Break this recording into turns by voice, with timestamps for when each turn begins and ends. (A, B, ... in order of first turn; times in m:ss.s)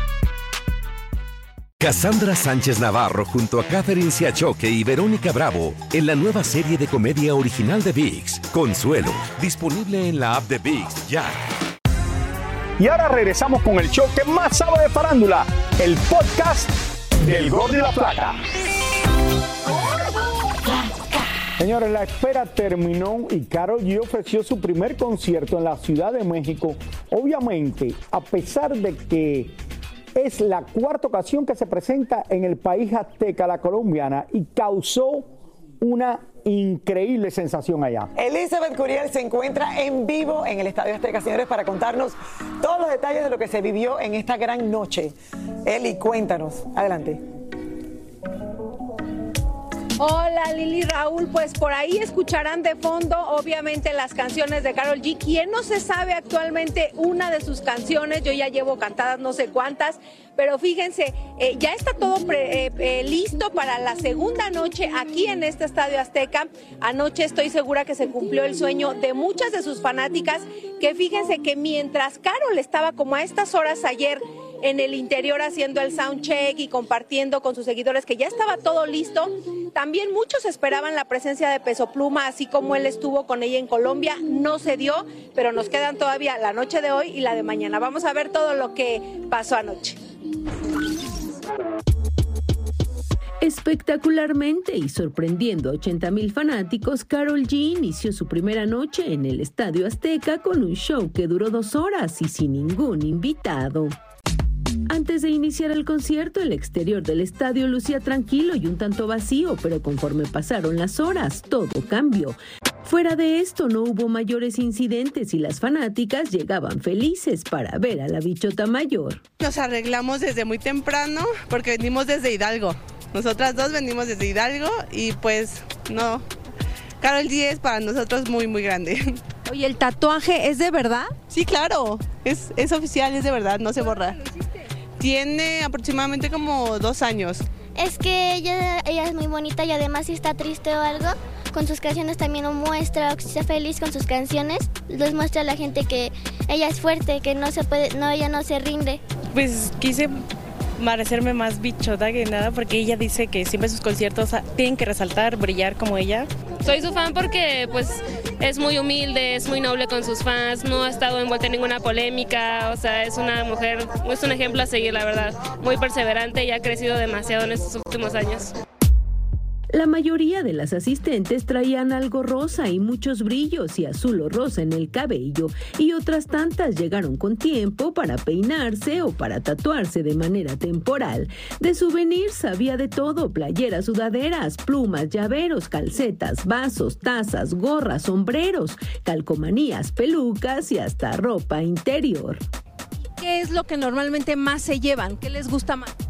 0:01.8-0:11.4 A
0:12.8-0:18.4 B
0:21.6-0:29.6 B
0:30.2-0:38.1 B
0:38.2-0:45.1 C
0:45.6-0:47.2 C
0:50.0-1:30.0 D
1:33.4-1:44.0 E
1:44.9-1:59.2 E
1:59.4-2:06.2 F
2:07.0-2:09.2 F
2:09.5-2:11.2 D
2:11.3-2:14.2 F
2:15.0-2:17.4 F
2:17.8-2:29.0 G
2:29.4-2:30.1 H
2:30.9-2:36.2 H
2:36.6-2:48.5 I
2:49.7-3:12.4 E
3:13.2-3:15.9 D